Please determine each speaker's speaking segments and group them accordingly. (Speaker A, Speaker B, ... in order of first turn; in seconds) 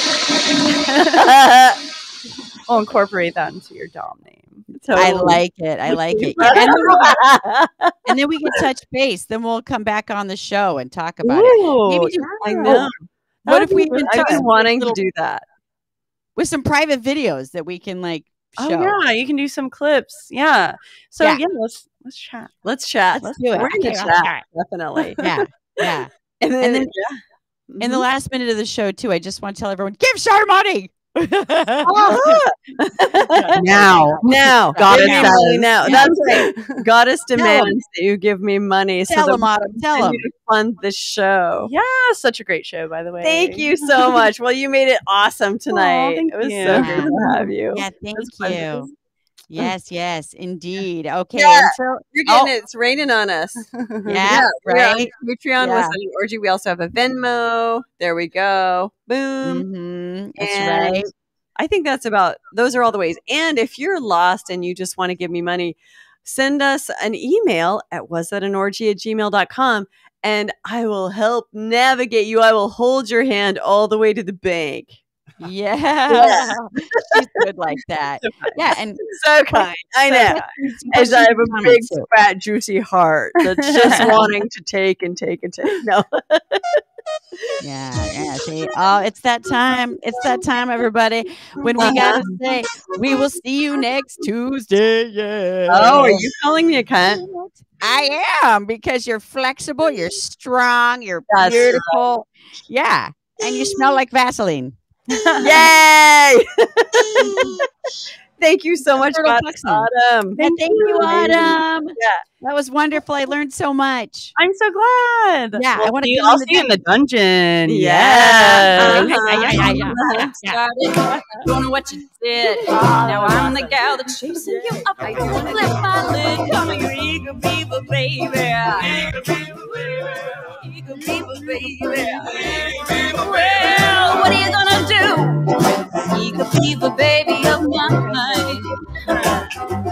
Speaker A: 0.7-1.3, 2.7-4.7, 6.4-6.8, 12.5-12.9, 13.4-14.5, 18.6-22.5, 33.8-36.8, 37.4-37.7, 41.6-44.2, 45.7-47.4, 48.1-48.9, 53.7-54.2, 78.2-78.6, 80.1-80.5, 83.6-84.2, 91.6-92.3, 105.1-105.5, 110.4-111.5, 114.3-119.2
Speaker B: 1.2-1.8, 4.8-7.9, 11.2-13.0, 13.9-15.4, 22.6-25.2, 26.4-28.0, 31.8-33.6, 34.2-41.7, 43.2-47.9, 51.3-53.6, 54.2-59.7, 60.4-61.0, 61.5-75.0, 76.1-76.5, 79.0-86.8, 91.8-92.2, 95.7-97.2, 101.3-102.0, 105.4-107.5, 108.4-112.2, 117.7-120.3, 124.5-125.8
Speaker C: 4.9-7.2, 8.1-12.9, 13.4-15.0, 16.4-19.0, 23.3-24.4, 25.2-26.9, 27.8-32.4, 33.5-36.1, 39.1-40.2, 46.7-47.2, 47.7-48.9, 49.5-52.5, 54.0-56.0, 59.4-61.1, 75.4-79.0, 80.2-82.1, 83.8-84.2, 87.6-96.3, 97.0-105.5, 107.2-107.5, 109.0-114.3, 115.5-116.7, 118.9-120.6, 123.2-123.7, 138.1-138.6
Speaker D: 118.8-139.3